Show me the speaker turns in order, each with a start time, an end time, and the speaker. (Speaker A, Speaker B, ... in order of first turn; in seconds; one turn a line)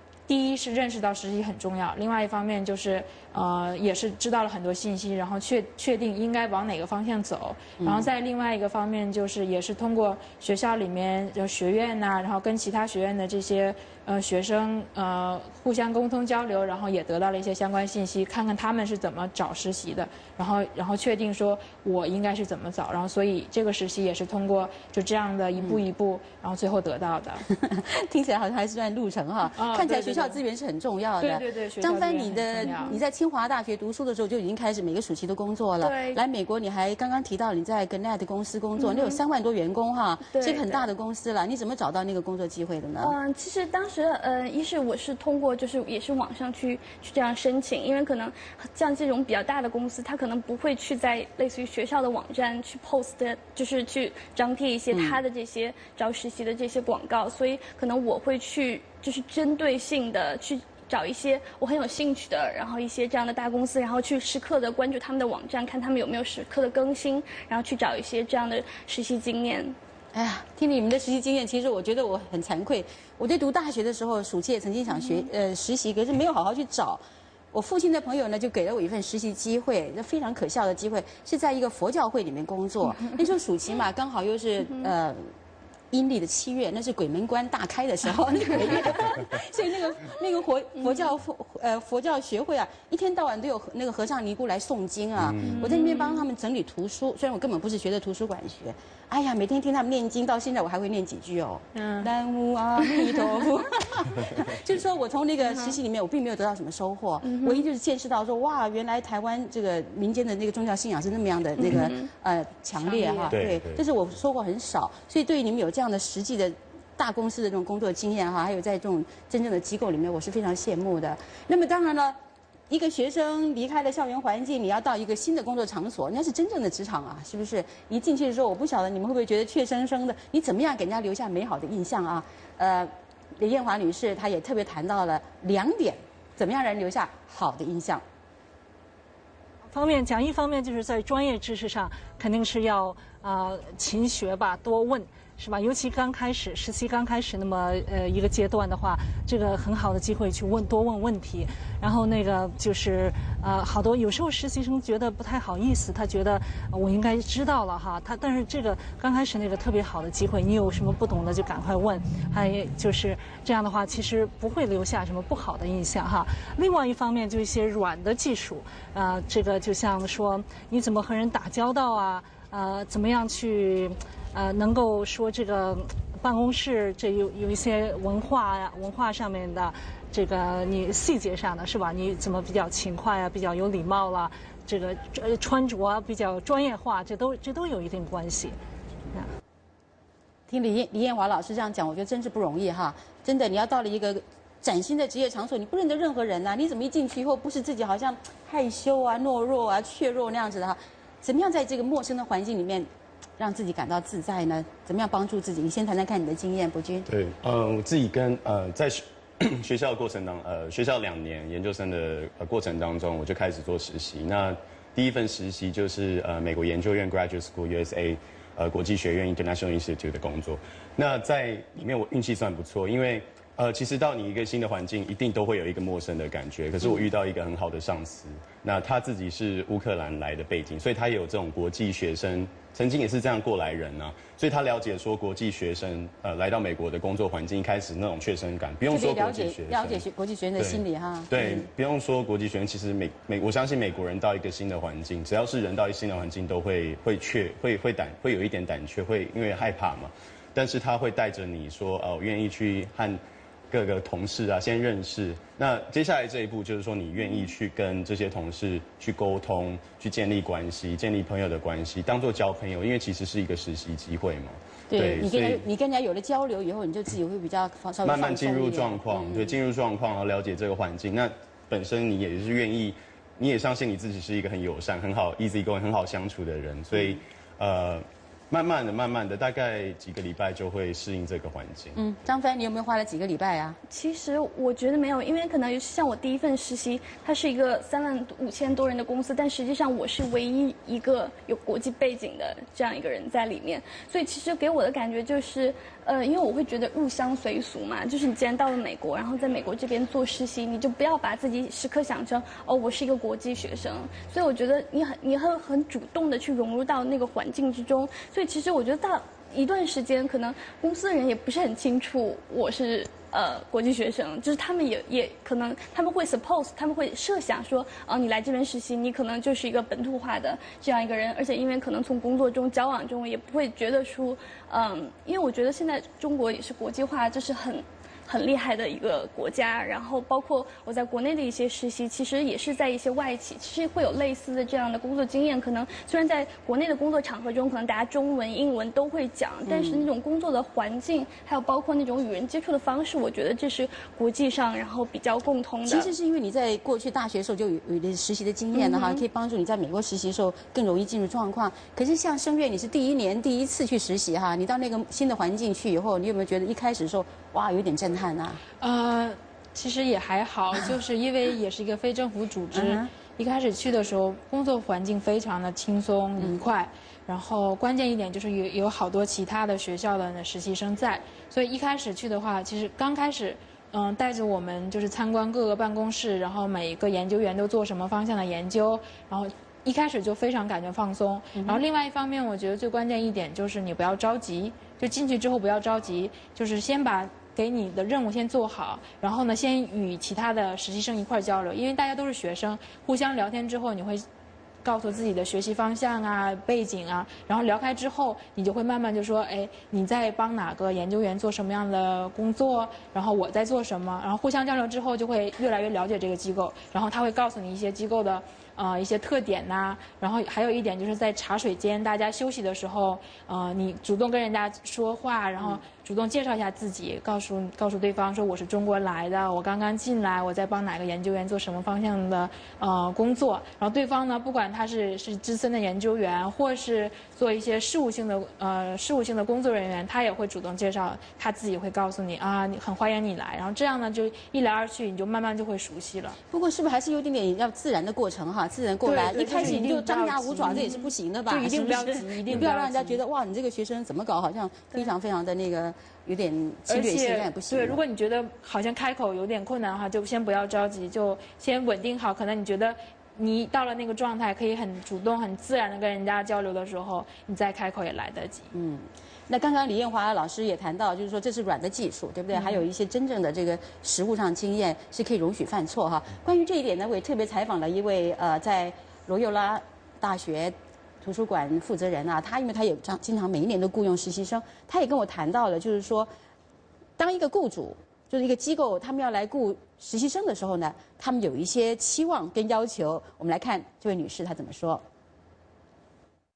Speaker A: 0.3-27.4
Speaker B: 7.8-8.1
Speaker B: 27.5-43.1
Speaker A: 29.6-30.4
Speaker A: 31.2-33.0
Speaker C: 35.9-36.1
Speaker C: 38.8-39.2
Speaker C: 40.3-40.9
Speaker C: 43.0-69.8
Speaker B: 54.9-55.2
Speaker B: 70.2-85.3
Speaker C: 74.9-75.3
Speaker C: 84.6-84.9
Speaker B: 85.9-122.2
Speaker C: 90.8-91.1
Speaker D: 95.2-95.5
Speaker C: 95.4-96.2
Speaker A: 101.7-102.1
Speaker C: 107.2-107.7
Speaker C: 111.6-112.1
Speaker D: 113.3-113.8
Speaker B: 122.7-138.0
Speaker E: 139.7-188.6
Speaker B: 190.5-207.1
Speaker D: 207.1-240.0
Speaker B: 226.8-227.1
Speaker B: 238.9-241.7
Speaker D: 240.6-265.6
Speaker B: 257.2-257.5
Speaker B: 264.9-269.6
Speaker D: 268.1-282.0
Speaker B: 276.9-277.2
Speaker B: 281.9-283.8
Speaker C: 283.9-346.1
Speaker B: 339.7-340.1
Speaker B: 345.9-358.6
Speaker C: 348.8-349.2
Speaker A: 358.8-394.2
Speaker B: 362.7-363.1
Speaker B: 381.6-381.8
Speaker A: 394.8-436.4
Speaker B: 436.5-448.0
Speaker A: 439.0-443.2
Speaker A: 446.9-458.7
Speaker B: 458.7-476.3
Speaker A: 462.5-462.9
Speaker B: 477.2-485.0